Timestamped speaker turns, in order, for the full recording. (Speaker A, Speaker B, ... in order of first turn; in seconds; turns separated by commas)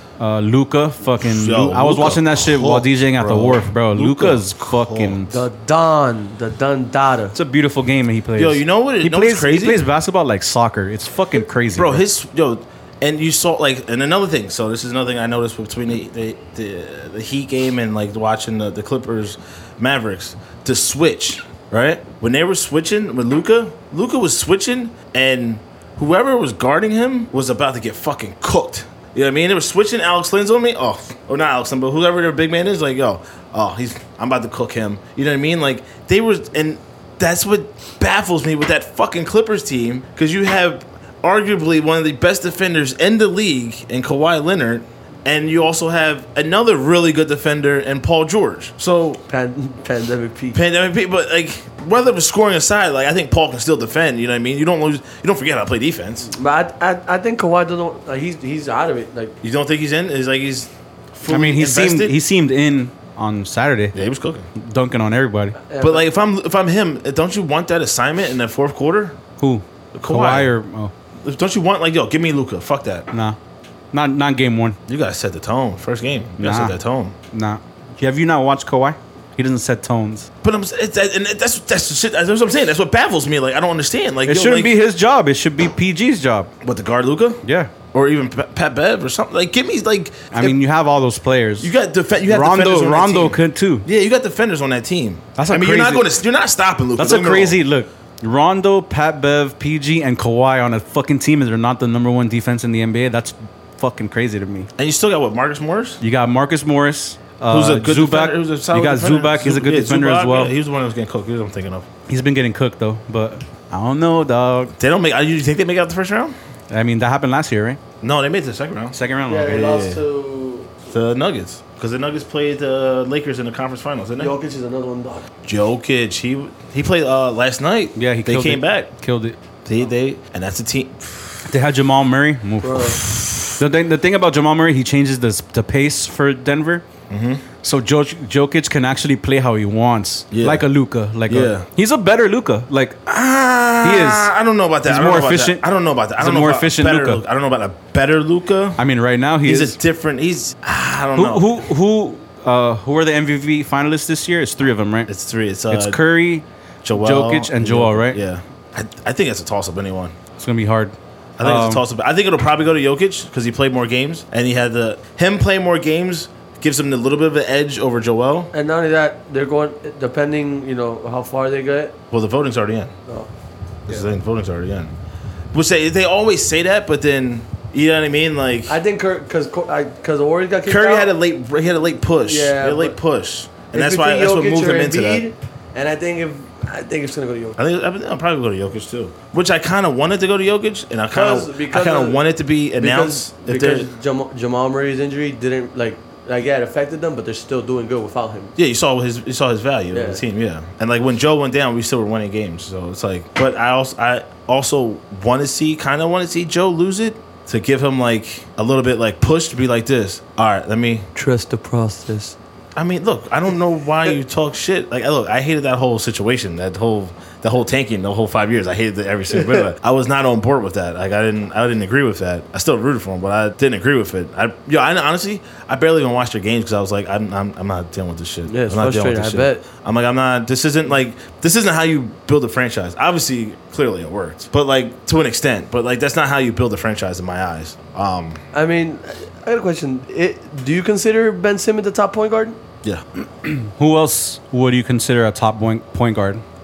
Speaker A: 0.2-5.4, Speaker B: 1.2-5.2, Speaker C: 5.3-7.3, Speaker A: 7.3-12.0, Speaker B: 8.3-9.8, Speaker B: 11.7-49.2, Speaker C: 49.3-50.6, Speaker B: 50.5-56.3, Speaker C: 56.3-59.4, Speaker B: 59.4-62.1, Speaker A: 61.3-64.0, Speaker B: 63.9-64.5, Speaker A: 64.5-65.6, Speaker C: 65.6-66.1, Speaker B: 65.8-69.2, Speaker A: 69.4-70.9, Speaker B: 69.9-70.5, Speaker B: 71.2-73.1, Speaker A: 73.1-73.4, Speaker A: 73.9-74.8, Speaker B: 74.9-77.1, Speaker A: 76.4-76.8, Speaker A: 77.3-80.3, Speaker B: 80.4-84.7, Speaker A: 84.3-86.5, Speaker B: 86.6-87.4, Speaker A: 87.4-87.7, Speaker B: 87.9-90.5, Speaker A: 90.3-91.7, Speaker B: 91.6-97.6, Speaker A: 92.3-93.9, Speaker A: 95.3-96.0, Speaker A: 97.0-104.7, Speaker B: 104.8-106.0, Speaker A: 106.0-110.5, Speaker B: 107.5-111.9, Speaker A: 112.1-114.7, Speaker B: 114.8-116.3, Speaker A: 116.7-117.8, Speaker B: 118.0-120.0, Speaker A: 118.9-119.7, Speaker C: 119.3-120.8, Speaker B: 120.9-124.3, Speaker C: 124.2-125.3, Speaker B: 125.4-128.9, Speaker A: 128.0-129.4, Speaker B: 129.6-131.3, Speaker A: 131.5-136.8, Speaker C: 132.6-133.0, Speaker B: 133.1-133.5, Speaker B: 137.1-137.4, Speaker A: 137.6-143.0, Speaker B: 140.3-140.6, Speaker B: 141.3-141.7, Speaker B: 143.1-148.8, Speaker A: 143.8-144.3, Speaker A: 144.8-145.6, Speaker A: 146.2-147.2, Speaker A: 148.8-149.8, Speaker B: 149.4-151.5, Speaker A: 151.1-155.1, Speaker B: 155.1-156.0, Speaker A: 155.7-158.2, Speaker B: 156.8-160.2, Speaker A: 160.4-161.8, Speaker B: 161.4-168.5, Speaker C: 168.5-171.9, Speaker B: 172.1-172.9, Speaker B: 173.9-174.9, Speaker B: 175.5-178.8, Speaker C: 178.7-181.1, Speaker B: 180.6-185.2, Speaker C: 182.2-183.0, Speaker C: 183.7-187.6, Speaker B: 187.6-193.9, Speaker C: 191.1-192.2, Speaker C: 192.8-198.5, Speaker B: 198.6-211.1, Speaker C: 199.9-200.2, Speaker C: 211.1-212.4, Speaker B: 212.8-238.4, Speaker C: 228.5-229.6, Speaker C: 238.5-242.6, Speaker A: 243.4-246.4